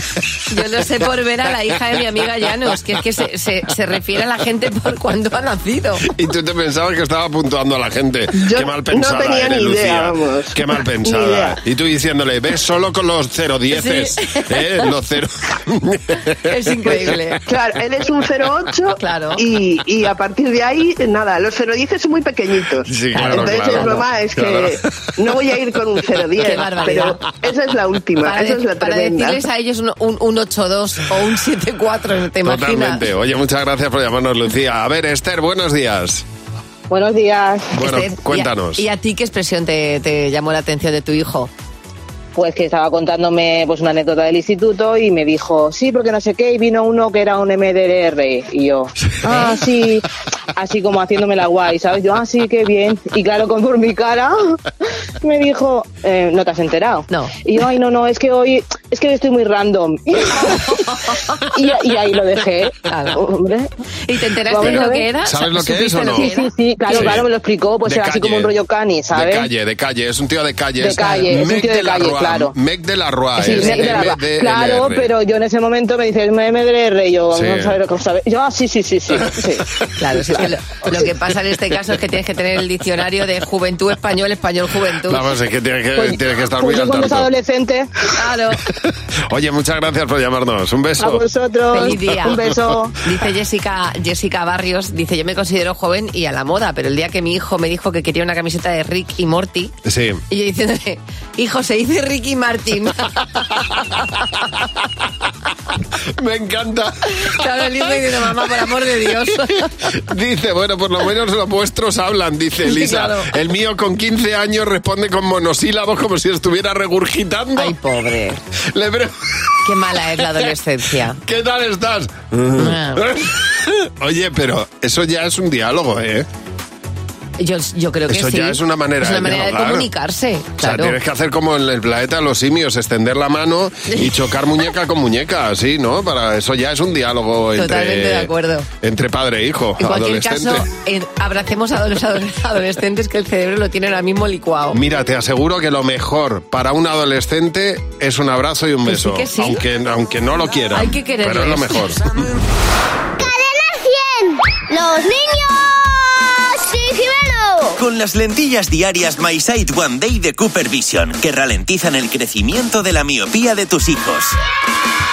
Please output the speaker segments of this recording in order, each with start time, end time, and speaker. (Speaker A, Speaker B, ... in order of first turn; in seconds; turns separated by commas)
Speaker A: 0.5-6.1, Speaker B: 6.1-16.2, Speaker C: 8.3-11.6, Speaker A: 13.7-14.9, Speaker A: 16.5-17.4, Speaker B: 16.9-17.2, Speaker C: 17.5-29.4, Speaker A: 19.0-19.4, Speaker B: 22.9-24.8, Speaker A: 23.1-24.0, Speaker A: 26.4-27.2, Speaker A: 28.2-33.0, Speaker B: 32.4-36.2, Speaker D: 36.9-37.7, Speaker B: 37.7-38.8, Speaker A: 37.8-41.5, Speaker D: 42.4-50.0, Speaker A: 49.2-49.6, Speaker D: 50.6-54.6, Speaker D: 55.2-60.8, Speaker A: 60.4-61.4, Speaker D: 61.5-63.7, Speaker A: 62.9-63.2, Speaker A: 64.0-67.2, Speaker D: 64.5-65.1, Speaker B: 64.6-66.3, Speaker D: 66.2-69.5, Speaker B: 66.9-67.2, Speaker B: 67.8-68.5, Speaker B: 69.1-75.1, Speaker D: 70.8-72.5, Speaker A: 73.4-74.2, Speaker D: 73.4-79.6, Speaker B: 77.3-77.8, Speaker A: 80.0-85.2, Speaker B: 85.1-87.3, Speaker D: 86.0-87.9, Speaker A: 88.2-88.6, Speaker B: 89.3-91.2, Speaker D: 91.0-92.9, Speaker A: 91.7-92.5, Speaker A: 93.0-99.7, Speaker B: 99.8-100.2, Speaker A: 100.3-104.3, Speaker B: 106.2-107.1, Speaker A: 107.2-109.7, Speaker B: 110.0-117.8, Speaker A: 112.7-113.3, Speaker A: 117.6-118.4, Speaker B: 118.7-119.1, Speaker A: 119.7-121.2, Speaker B: 121.2-126.3, Speaker A: 122.6-123.1, Speaker A: 127.4-131.0, Speaker B: 128.1-129.9, Speaker B: 130.6-140.7, Speaker A: 133.9-134.1, Speaker A: 137.6-138.7, Speaker A: 139.8-144.8, Speaker B: 144.7-152.3, Speaker A: 148.9-149.6, Speaker A: 150.7-151.9, Speaker E: 153.2-157.8, Speaker F: 157.8-164.4